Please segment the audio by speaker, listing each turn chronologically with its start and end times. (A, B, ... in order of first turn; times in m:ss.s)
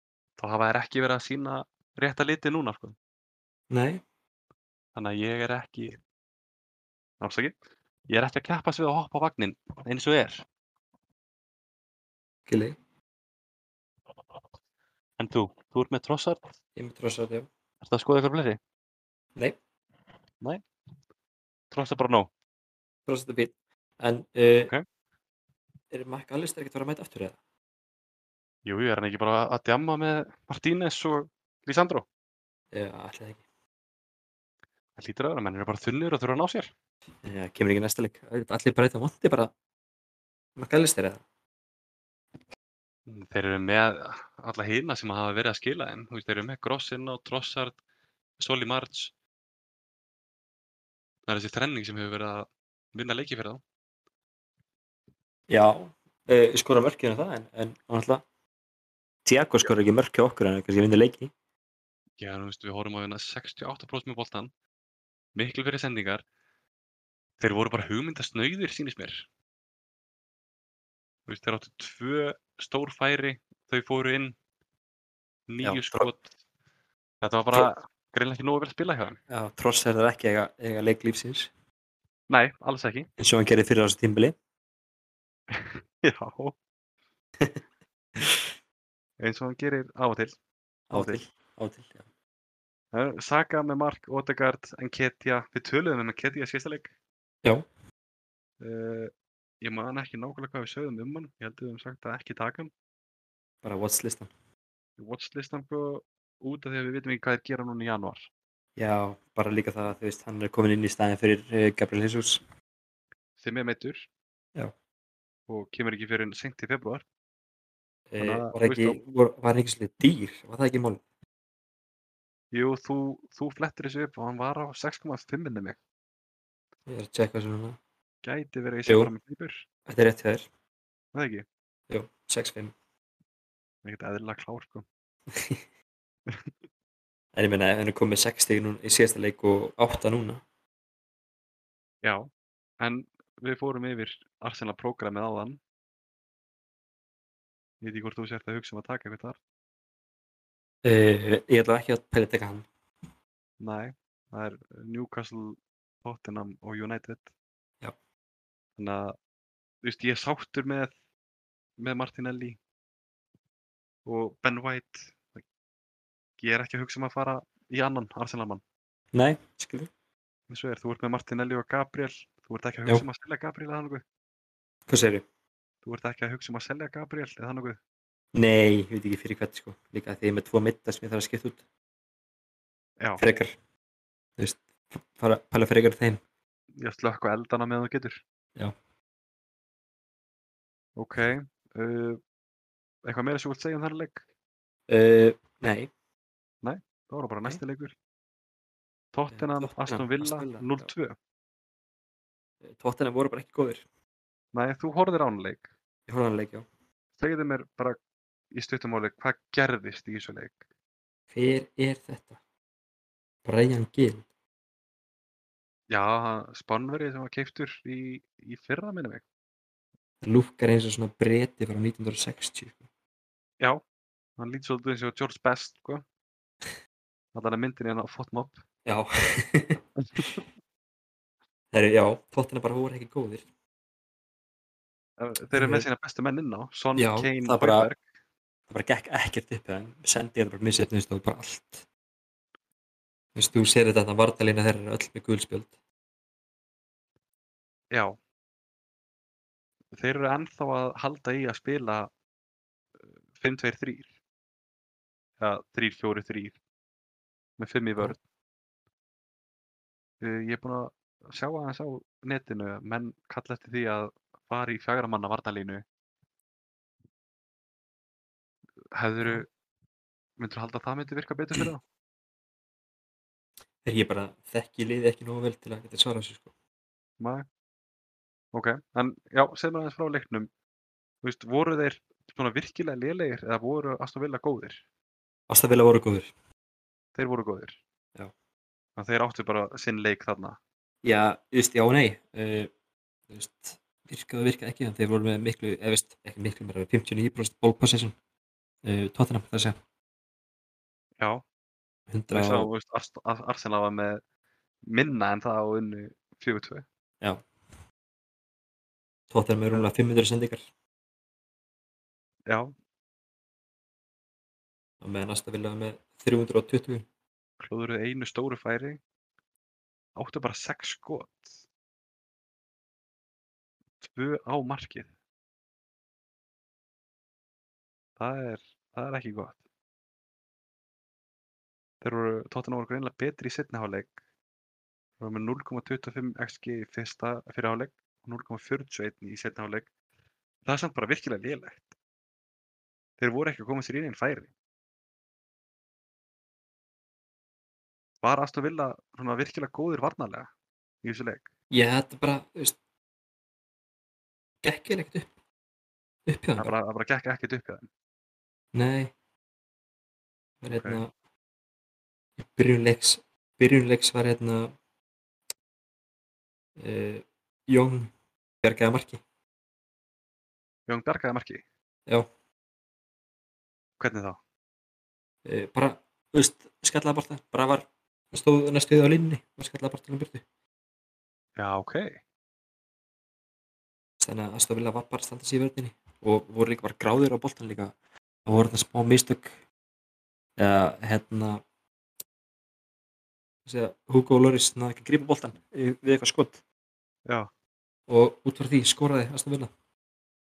0:00.4-0:03.0 A
0:03.7-0:04.0 B
0:05.0-0:06.0 A
0:07.2-0:07.6 A
0:08.1-0:10.4 A
0:12.5-0:12.8 B
0:15.2-0:16.5 A
0:16.8-0:17.5 B
0:17.8-0:18.6 A
0:21.7-0:22.3 A
0:23.1-0:24.7 B
0:25.9-0:27.4 B
0:28.7-0:32.1 A
0:32.7-0:33.4 B
0:35.0-0:36.7 A
0:37.2-0:39.5 B
0:40.6-0:41.2 B
0:43.1-0:47.8 A
0:48.4-0:49.1 A
0:51.3-0:53.6 A
0:55.5-0:58.2 B
0:59.2-1:01.3 B
1:02.2-1:04.5 A
1:05.4-1:06.2 A
1:07.4-1:09.3 A
1:11.3-1:14.4 A
1:15.5-1:16.3 A
1:15.6-1:16.1 B
1:17.2-1:19.2 A
1:19.3-1:21.5 B
1:22.3-1:23.1 A
1:23.2-1:24.4 B
1:25.5-1:26.6 A
1:28.2-1:28.5 B
1:29.2-1:30.4 A
1:30.9-1:32.0 B
1:30.9-1:31.2 A
1:32.9-1:36.9 A
1:38.6-1:39.1 A
1:39.6-1:42.7 A
1:43.6-1:44.3 B
1:45.0-1:48.3 A
1:48.8-1:52.4 B
1:53.4-1:54.1 A
1:55.5-1:57.0 A
1:58.1-2:01.0 B
1:58.2-1:59.0 A
2:02.5-2:05.8 A
2:06.9-2:07.8 B
2:08.2-2:09.6 A
2:08.9-2:09.1 B
2:09.9-2:10.5 B
2:11.2-2:11.5 A
2:11.9-2:12.7 B
2:13.8-2:14.8 A
2:15.3-2:15.6 B
2:17.4-2:20.4 B
2:22.0-2:22.3 A
2:22.8-2:25.6 A
2:27.8-2:29.4 A
2:30.8-2:32.7 B
2:33.6-2:37.3 A
2:38.8-2:39.2 A
2:39.8-2:40.9 A
2:41.8-2:42.6 A
2:44.1-2:45.4 A
2:46.4-2:48.6 A
2:49.1-2:49.9 B
2:50.5-2:54.0 A
2:54.9-2:55.2 B
2:55.8-2:57.8 A
2:58.3-3:01.6 B
3:03.2-3:03.6 B
3:04.4-3:06.2 B
3:06.8-3:08.2 A
3:11.0-3:12.2 A
3:13.0-3:14.2 A
3:14.9-3:15.9 B
3:16.6-3:18.0 A
3:19.1-3:21.2 A
3:19.3-3:20.9 B
3:22.6-3:23.8 B
3:24.5-3:25.7 A
3:26.1-3:26.7 B
3:27.2-3:28.0 A
3:28.5-3:30.6 A
3:31.3-3:32.4 B
3:33.4-3:34.2 B
3:35.9-3:39.2 A
3:40.2-3:42.8 B
3:44.4-3:46.0 A
3:47.3-3:48.6 A
3:48.8-3:50.3 B
3:50.0-3:50.4 A
3:51.7-3:53.4 B
3:55.2-3:58.0 A
3:55.6-3:55.9 B
3:57.0-3:57.9 B
3:58.7-4:01.8 B
4:03.4-4:05.7 B
4:07.9-4:08.2 A
4:09.9-4:12.1 A
4:13.3-4:14.1 A
4:15.4-4:16.6 A
4:17.6-4:18.2 A
4:20.2-4:25.8 A
4:28.9-4:29.5 A
4:30.4-4:31.8 A
4:33.8-4:36.5 B
4:37.2-4:37.5 A
4:38.5-4:40.5 A
4:41.2-4:44.8 A
4:45.5-4:46.3 B
4:47.2-4:47.8 A
4:49.0-4:50.6 A
4:51.0-4:52.7 B
4:53.3-4:58.2 B
4:58.8-4:59.8 B
5:02.1-5:02.7 B
5:02.3-5:04.2 A
5:04.9-5:06.8 A
5:09.3-5:10.6 B
5:12.5-5:12.7 A
5:15.0-5:17.1 B
5:17.6-5:19.0 A
5:20.2-5:21.6 A
5:24.0-5:25.1 A
5:28.2-5:29.6 A
5:32.0-5:34.1 A
5:35.2-5:39.9 A
5:40.6-5:42.0 A
5:43.2-5:44.5 A
5:48.2-5:50.5 A
5:51.0-5:51.5 A
5:51.7-5:52.8 B
5:54.6-5:55.3 B
5:56.3-5:56.7 B
5:56.6-5:57.9 A
5:58.7-5:59.1 B
6:00.6-6:01.1 B
6:00.7-6:01.0 A
6:02.4-6:04.7 B
6:06.8-6:08.1 B
6:08.6-6:09.2 B
6:10.9-6:11.6 A
6:14.0-6:14.4 A
6:15.4-6:20.4 B
6:21.6-6:22.2 A
6:24.2-6:28.0 B
6:28.5-6:29.6 B
6:30.6-6:31.6 B
6:33.7-6:36.6 B
6:38.1-6:39.7 B